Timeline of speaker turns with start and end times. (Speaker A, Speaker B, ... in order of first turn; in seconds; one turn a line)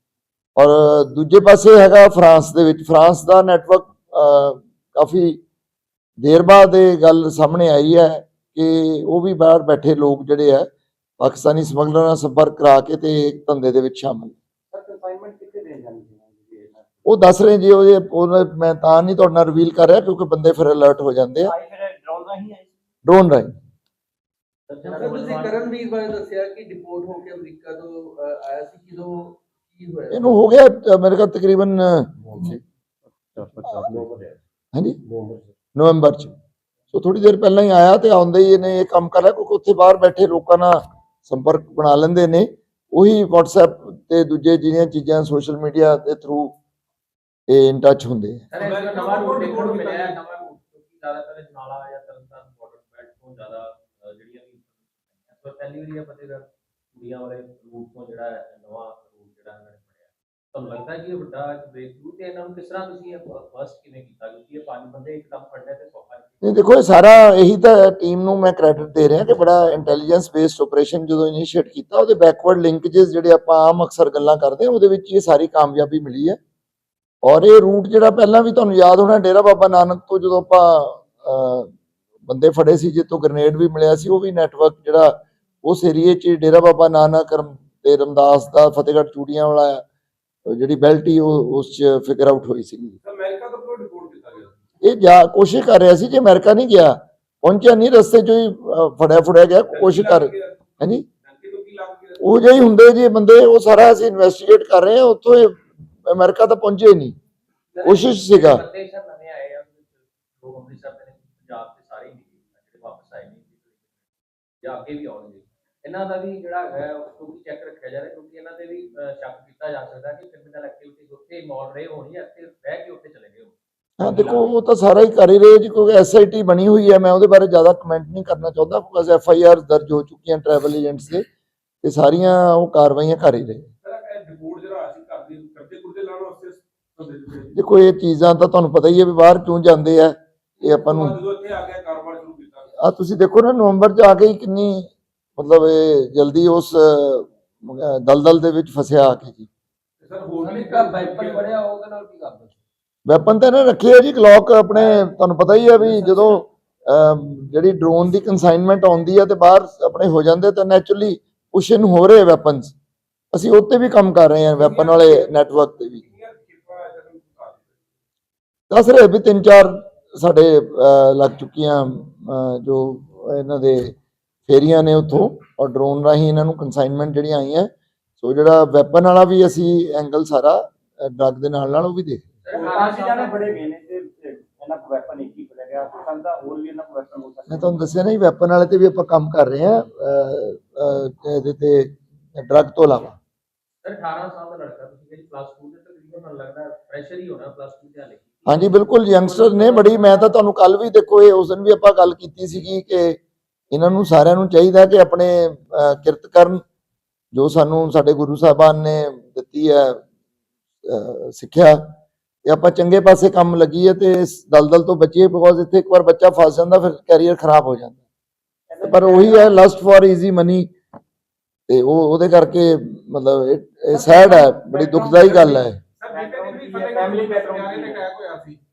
Speaker A: 0.6-5.4
Speaker A: 6.2-10.7
Speaker A: 11.2-14.3
Speaker B: 14.7-17.1
Speaker A: 17.1-21.5
Speaker B: 21.4-22.8
Speaker A: 23.0-23.5
Speaker C: 24.7-25.7
Speaker D: 24.8-30.3
Speaker A: 30.1-32.6
Speaker B: 33.3-34.3
Speaker A: 34.7-35.0
Speaker B: 35.1-35.4
Speaker A: 35.8-36.3
Speaker A: 36.9-46.5
Speaker A: 47.5-48.4
Speaker C: 48.5-54.6
Speaker E: 48.6-50.2
Speaker C: 55.3-66.4
Speaker A: 66.4-76.4
Speaker A: 77.2-81.7
Speaker A: 82.3-89.8
Speaker A: 90.5-93.0
Speaker E: 93.0-94.5
Speaker A: 94.8-101.0
Speaker E: 99.7-100.6
Speaker E: 101.2-102.3
Speaker A: 102.2-107.2
Speaker C: 107.7-113.8
Speaker A: 107.8-108.6
Speaker C: 114.6-124.5
Speaker A: 124.0-131.2
Speaker A: 131.8-133.7
Speaker E: 133.8-137.6
Speaker A: 137.5-141.2
Speaker E: 140.6-142.7
Speaker A: 142.8-149.5
Speaker E: 150.0-151.5
Speaker C: 150.4-152.6
Speaker A: 153.1-162.7
Speaker A: 163.3-166.0
Speaker E: 164.5-167.7
Speaker A: 168.7-173.9
Speaker A: 174.5-182.2
Speaker C: 182.4-183.6
Speaker E: 182.5-182.8
Speaker B: 182.5-187.8
Speaker A: 187.5-193.2
Speaker C: 193.8-200.4
Speaker A: 198.5-203.2
Speaker A: 203.7-206.6
Speaker A: 207.3-210.0
Speaker A: 210.8-211.9
Speaker A: 212.4-218.0
Speaker B: 218.7-219.7
Speaker A: 218.8-220.7
Speaker A: 221.7-225.8
Speaker B: 224.2-225.4
Speaker E: 225.1-228.6
Speaker B: 226.1-228.0